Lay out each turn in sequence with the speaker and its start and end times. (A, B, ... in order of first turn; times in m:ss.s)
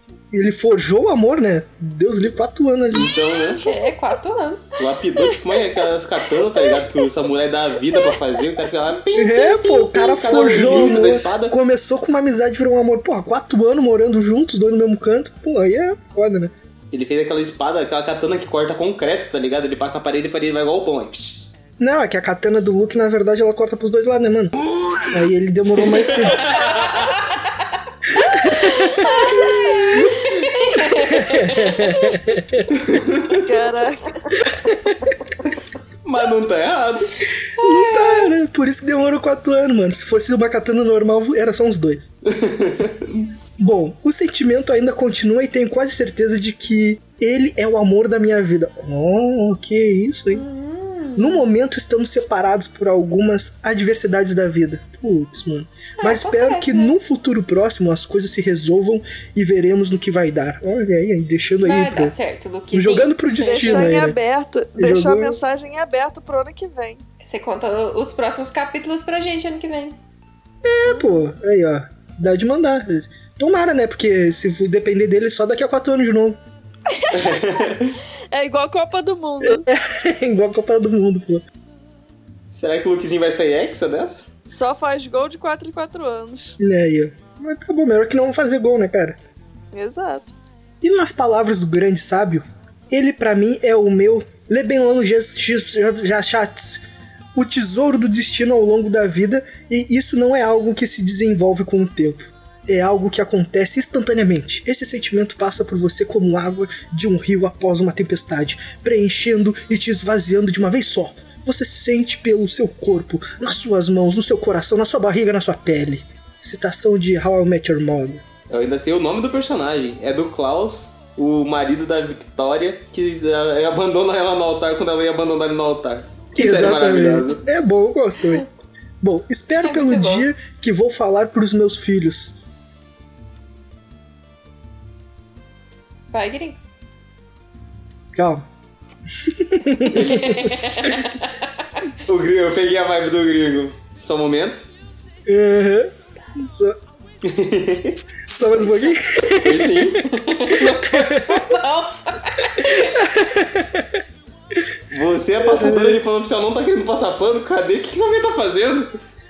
0:00.3-0:03.1 A
0:02.9-0:03.6 B
0:03.6-0:04.7 C
0:04.8-0:11.6 B
0:09.1-0:16.5 A
0:16.9-0:21.5 B
0:21.8-0:24.6 A
0:25.1-0:26.5 A
0:25.8-0:27.1 B
0:26.5-0:27.2 C
0:28.2-0:32.1 C
0:28.2-0:30.3 A
0:29.3-0:30.2 B
0:30.8-0:32.7 A
0:32.7-0:33.4 B
0:33.3-0:34.3 D
0:36.0-0:37.2 B
0:37.6-0:42.1 A
0:37.6-0:38.3 C
0:42.3-0:43.3 B
0:43.6-0:50.4 A
0:50.3-0:51.4 C
0:51.2-1:02.2 A
0:56.0-0:57.0 C
1:01.6-1:04.1 C
1:02.7-1:04.2 A
1:03.4-1:07.0 D
1:04.8-1:05.4 A
1:07.2-1:10.0 C
1:10.6-1:16.4 A
1:10.8-1:11.2 D
1:16.9-1:17.3 D
1:17.1-1:18.0 B
1:18.3-1:19.7 D
1:19.4-1:21.4 A
1:22.5-1:24.3 B
1:24.5-1:26.6 D
1:26.6-1:29.2 A
1:29.7-1:30.4 D
1:30.8-1:58.2 A
1:58.5-2:07.4 B
2:06.4-2:08.5 A
2:09.0-2:12.4 A
2:09.6-2:10.3 C
2:16.1-2:16.6 C
2:18.2-2:18.4 A
2:19.2-2:20.8 A
2:19.9-2:21.2 C
2:22.1-2:24.6 B
2:25.3-2:26.8 A
2:27.2-2:28.0 B
2:28.4-2:31.5 A
2:28.6-2:28.9 C
2:29.4-2:30.0 B
2:30.1-2:33.1 C
2:32.6-2:34.0 A
2:34.9-2:39.0 B
2:35.4-2:36.0 A